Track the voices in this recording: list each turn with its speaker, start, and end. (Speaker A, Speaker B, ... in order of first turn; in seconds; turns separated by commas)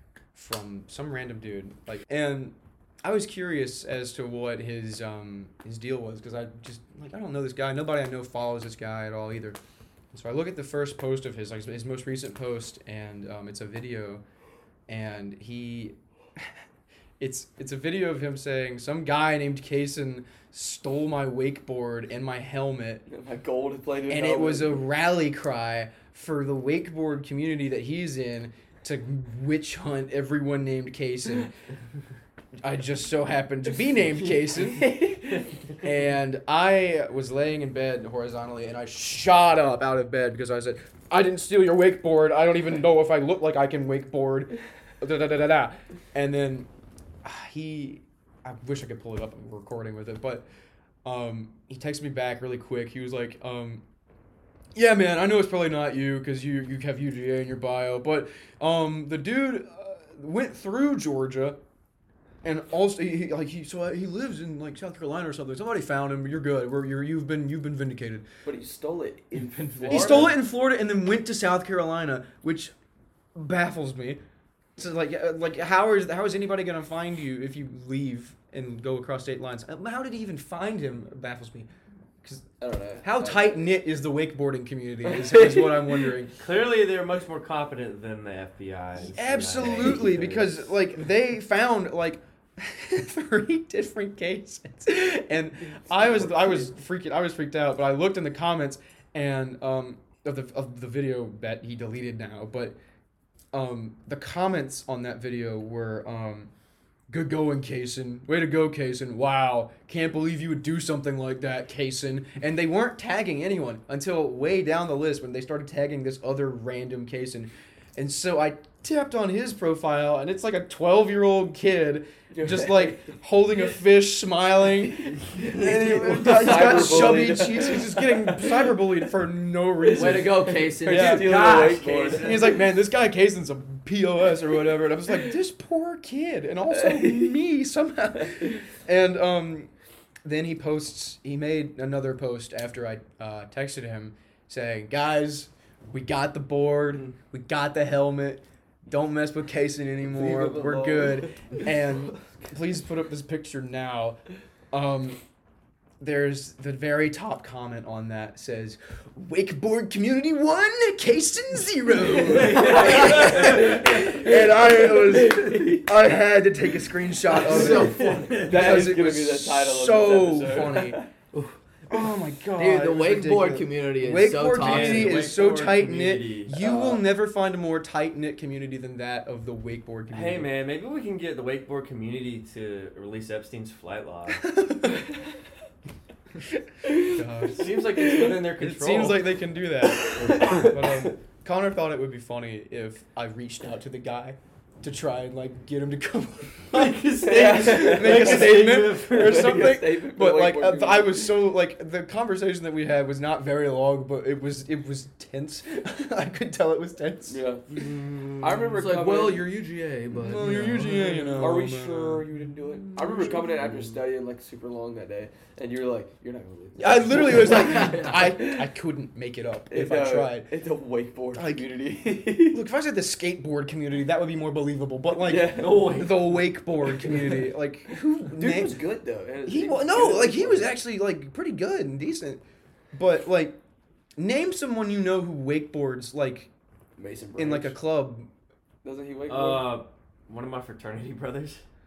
Speaker A: 0.3-9.6, Speaker A: 10.1-14.2, Speaker A: 14.9-16.6, Speaker A: 17.2-23.0, Speaker B: 23.1-24.9, Speaker A: 24.1-31.5, Speaker A: 32.6-35.1, Speaker A: 35.8-46.7, Speaker A: 47.2-50.5, Speaker A: 51.0-53.8, Speaker A: 54.7-61.6, Speaker A: 62.4-68.3, Speaker B: 68.4-70.3, Speaker C: 69.5-70.3, Speaker A: 69.8-72.7, Speaker A: 73.3-74.2, Speaker A: 74.8-81.7, Speaker B: 82.6-83.6, Speaker A: 83.0-86.3, Speaker B: 85.0-86.1, Speaker D: 86.3-90.7, Speaker A: 89.0-102.8, Speaker A: 103.5-106.5, Speaker A: 107.1-139.7, Speaker B: 122.3-123.1, Speaker B: 125.3-128.7, Speaker C: 125.6-127.3, Speaker B: 129.8-132.5, Speaker C: 129.9-131.7, Speaker D: 131.2-132.6, Speaker B: 136.7-137.3, Speaker A: 140.2-155.2, Speaker B: 150.2-151.2, Speaker D: 150.2-150.5, Speaker A: 156.0-171.0, Speaker D: 162.2-163.9, Speaker B: 162.6-165.9, Speaker B: 167.3-171.1, Speaker C: 167.3-168.4, Speaker D: 167.6-168.8, Speaker A: 171.9-180.5, Speaker C: 172.5-175.3, Speaker D: 174.5-176.7, Speaker B: 176.5-177.0, Speaker D: 180.1-184.5, Speaker A: 184.5-185.0, Speaker A: 187.1-187.8, Speaker D: 187.5-189.3, Speaker A: 188.6-207.4, Speaker B: 189.9-191.1, Speaker D: 196.7-199.6, Speaker B: 197.2-201.4, Speaker B: 207.3-207.7, Speaker D: 207.7-208.3, Speaker B: 208.4-209.5, Speaker C: 208.7-211.5, Speaker A: 210.1-213.7, Speaker B: 211.3-218.7, Speaker A: 216.8-220.5, Speaker C: 217.5-218.1, Speaker B: 219.7-222.6, Speaker A: 221.3-221.7, Speaker A: 222.5-228.8, Speaker B: 225.1-226.1, Speaker D: 225.6-226.2, Speaker B: 226.8-227.5, Speaker B: 228.2-230.7, Speaker A: 229.4-232.4, Speaker A: 232.9-233.6, Speaker A: 234.2-236.5, Speaker B: 237.0-237.8, Speaker A: 237.4-238.3, Speaker B: 238.8-239.7, Speaker D: 239.3-241.6